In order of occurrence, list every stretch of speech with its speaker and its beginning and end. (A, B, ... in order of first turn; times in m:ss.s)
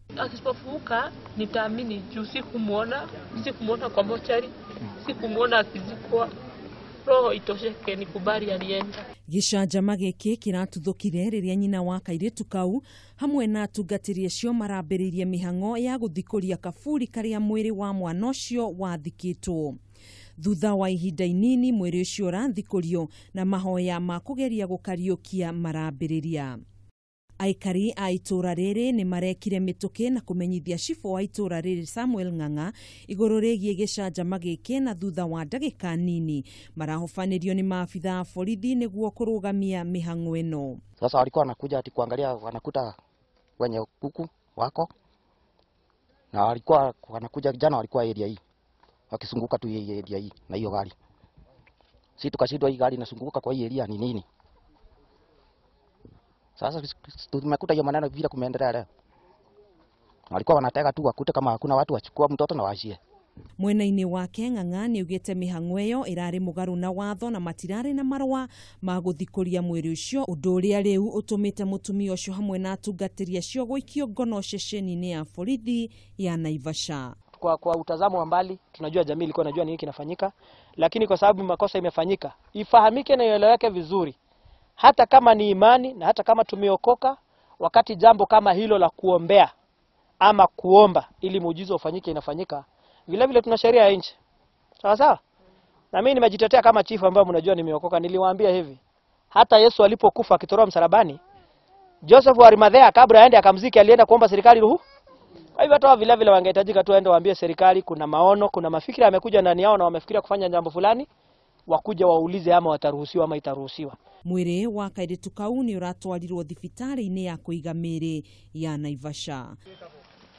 0:00.2-0:06.3 A
0:07.0-0:09.0 A
0:09.3-0:19.8 B
0:20.4-0:26.6 B
0:27.4-0:40.8 B
0:41.0-0:43.0 C
0:43.6-0:44.9 C
0:46.3-0:48.4 C
0:49.1-0:50.9 C
0:52.2-0:54.2 C
0:56.6-0:58.9 C
1:00.3-1:03.0 C
1:03.6-1:17.2 B
1:17.3-1:24.2 D
1:24.8-1:29.5 D
1:30.2-1:34.2 D
1:34.8-1:35.2 D
1:35.9-1:38.8 D
1:39.3-1:41.2 D
1:42.0-1:44.8 D
1:45.6-1:51.1 D
1:51.7-1:54.0 D
1:54.2-1:59.5 B